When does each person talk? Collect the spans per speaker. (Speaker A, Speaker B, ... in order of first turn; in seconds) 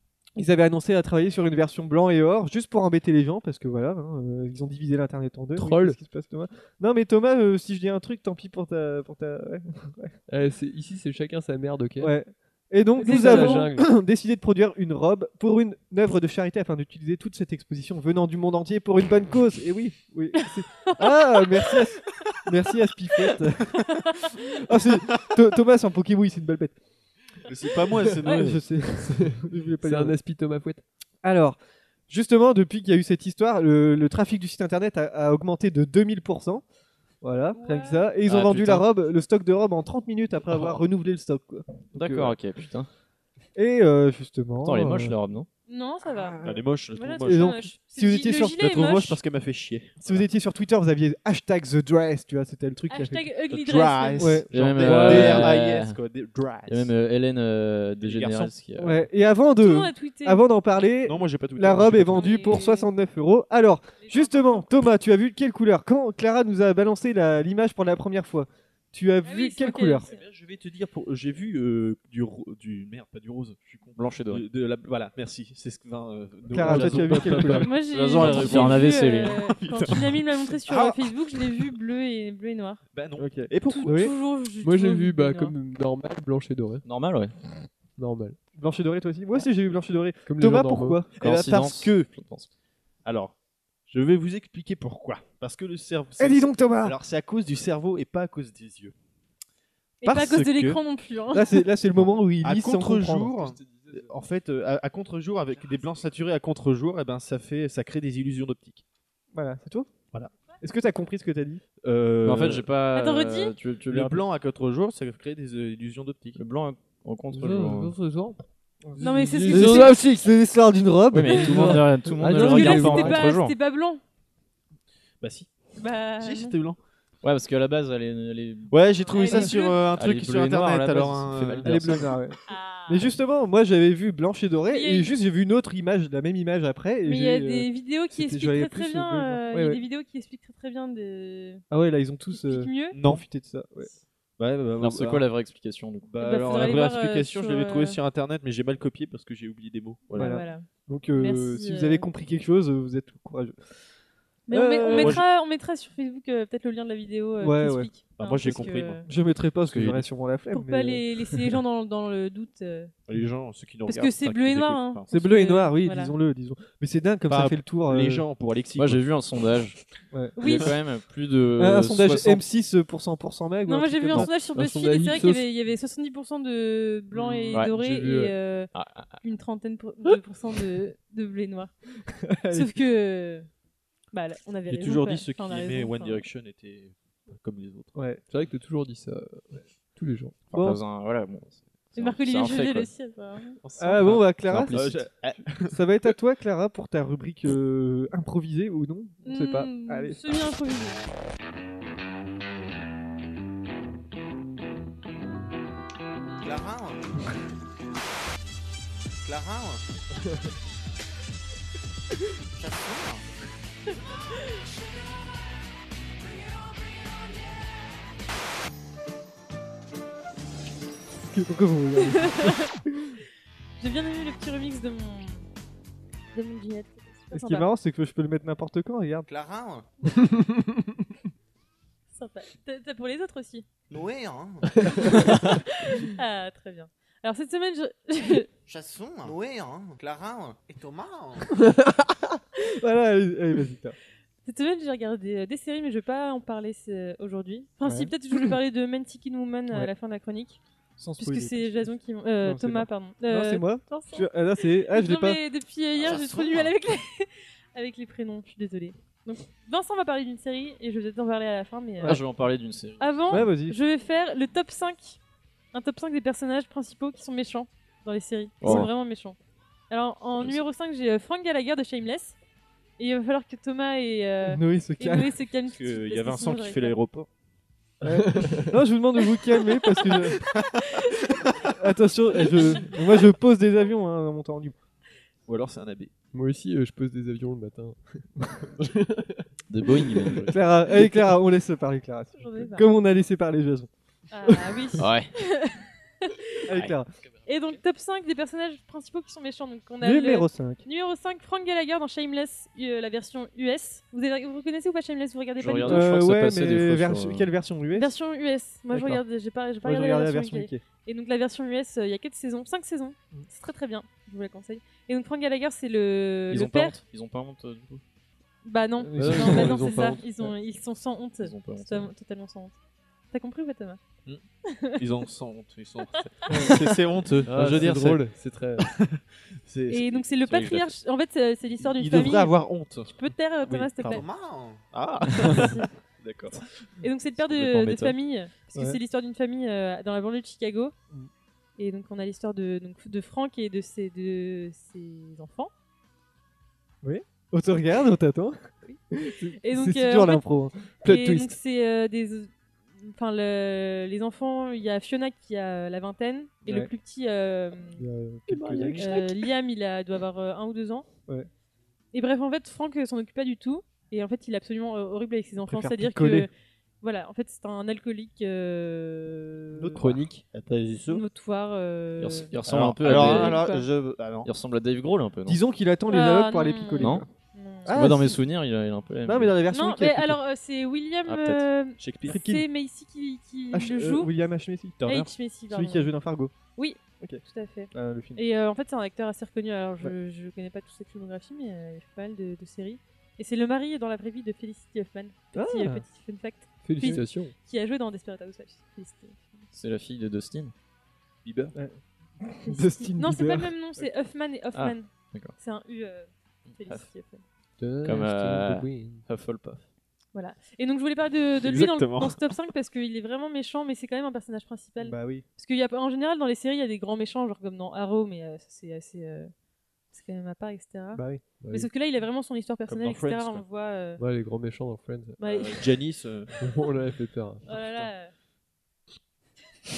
Speaker A: 0.4-10.1, 12.0-23.8, 24.5-26.8, 28.2-30.1, 31.2-31.6, 32.1-36.6, 37.2-42.4, 43.5-45.1, 46.2-46.6, 47.2-48.8, 50.0-53.3, 54.2-55.5, 58.8-70.1, 76.5-77.7, 83.2-84.1, 88.5-91.1, 96.2-97.0, 100.0-100.4, 101.3-103.4, 109.3-109.9, 110.6-111.6, 118.8-121.8, 131.6-132.4, 132.9-139.8, 141.7-143.9, 150.2-153.6, 154.5-155.2, 157.4-157.9, 159.0-161.0, 165.1-168.2, 170.1-170.6, 171.6-174.3, 182.1-182.8, 187.9-188.2, 190.5-190.8, 193.8-195.0, 195.6-200.2, 221.2-223.2, 227.3-229.3, 242.6-244.0, 247.8-248.1, 251.0-255.4, 263.3-263.8, 274.4-275.3, 278.0-280.4, 281.7-284.7, 290.5-293.9, 296.7-297.1, 300.0-300.8, 305.9-308.1, 308.9-309.2, 309.8-310.8, 319.0-319.8, 326.5-326.8, 347.0-348.6, 349.1-351.2, 357.9-359.3, 365.7-366.5, 375.5-377.3, 377.9-378.4, 379.2-380.4, 382.3-382.6, 383.7-385.0, 385.7-386.5, 387.9-388.4, 395.5-396.0, 401.7-403.7, 415.0-415.4, 421.1-421.4
Speaker B: 5.5-6.0, 10.3-12.2, 13.0-13.9, 29.2-30.8, 76.6-77.6, 84.6-86.8, 88.0-88.4, 90.2-91.0, 117.3-118.4, 119.0-119.9, 121.5-123.3, 174.5-175.4, 177.6-178.3, 188.3-190.3, 230.2-230.7, 278.1-278.7, 286.3-288.2, 288.8-289.4, 319.2-320.2, 327.4-328.9, 351.0-351.5, 358.5-359.1, 396.8-397.5, 407.8-409.2, 421.6-421.9, 424.2-425.4, 426.6-427.7
Speaker C: 13.0-13.7, 20.8-21.8, 23.8-24.3, 37.5-38.1, 45.7-49.2, 52.9-54.4, 59.6-60.4, 62.1-62.9, 64.0-64.7, 69.2-70.2, 77.5-82.8, 83.7-85.5, 100.0-101.7, 112.9-113.5, 119.0-120.0, 122.3-124.0, 125.8-126.5, 129.1-129.8, 132.5-133.1, 134.7-135.1, 137.0-141.6, 142.3-142.9, 146.2-148.0, 150.1-152.1, 154.5-159.1, 160.5-162.9, 163.9-166.1, 170.4-170.7, 173.7-178.7, 179.2-181.7, 182.5-183.5, 184.1-186.2, 191.9-193.6, 199.2-201.0, 222.1-222.7, 223.8-225.4, 226.3-227.7, 232.1-233.6, 235.2-238.5, 244.4-250.6, 251.2-262.2, 263.0-265.2, 265.7-269.4, 269.9-272.4, 273.0-276.9, 279.3-281.2, 282.5-282.9, 292.4-292.8, 294.3-296.6, 297.4-306.1, 307.9-316.9, 318.6-322.8, 323.3-324.0, 324.7-325.1, 326.1-327.0, 329.9-334.2, 335.4-335.9, 337.0-340.9, 341.8-345.7, 348.8-350.4, 351.1-352.5, 353.0-358.0, 358.8-361.1, 362.1-369.9, 371.0-372.5, 373.1-373.8, 376.1-378.0, 379.7-384.3, 385.0-386.1, 386.7-399.6, 402.6-407.4, 410.3-419.5, 420.1-424.2, 425.4-425.9, 427.7-428.3
Speaker D: 27.5-28.6, 46.4-47.7, 48.3-50.2, 53.5-56.9, 58.0-58.5, 61.0-62.6, 70.0-81.7, 82.9-84.1, 91.2-92.1, 93.0-93.3, 93.9-98.9, 100.1-100.8, 102.4-108.8, 111.8-112.7, 113.9-116.4, 125.2-125.5, 126.2-126.8, 128.7-132.0, 142.9-143.2, 144.4-145.3, 146.1-150.4, 154.9-155.2, 158.1-159.0, 163.1-165.1, 167.3-169.0, 184.7-187.9, 193.6-195.8, 256.0-256.6, 275.7-277.3, 285.5-286.1, 325.0-328.2, 328.8-330.9, 331.8-334.2, 334.9-336.6, 369.8-371.2, 372.6-374.5, 377.9-378.2, 382.0-382.4, 385.0-385.3, 401.4-401.7, 411.6-412.4, 422.9-423.6, 425.4-426.6, 427.7-428.1
Speaker E: 38.2-38.9, 41.9-42.9, 44.6-45.5, 54.5-56.0, 56.7-59.1, 73.9-74.4, 78.0-79.4, 86.8-87.3, 91.2-92.5, 112.2-114.2, 116.4-117.9, 121.1-123.5, 127.2-132.2, 144.8-146.1, 168.8-169.8, 170.4-172.4, 178.7-179.2, 190.5-192.9, 194.5-195.0, 262.0-263.5, 268.6-268.9, 289.7-290.5, 295.0-295.3, 305.6-307.5, 316.5-318.0, 321.4-322.1, 337.4-338.1, 372.2-373.6, 374.4-375.6, 377.0-377.2, 377.9-379.6, 381.3-381.7, 399.7-400.7, 404.7-405.5, 408.0-409.9
Speaker F: 206.4-207.3, 209.2-209.8, 212.6-213.2, 229.3-229.9, 233.9-235.6, 238.7-241.5, 256.0-256.6, 334.0-334.8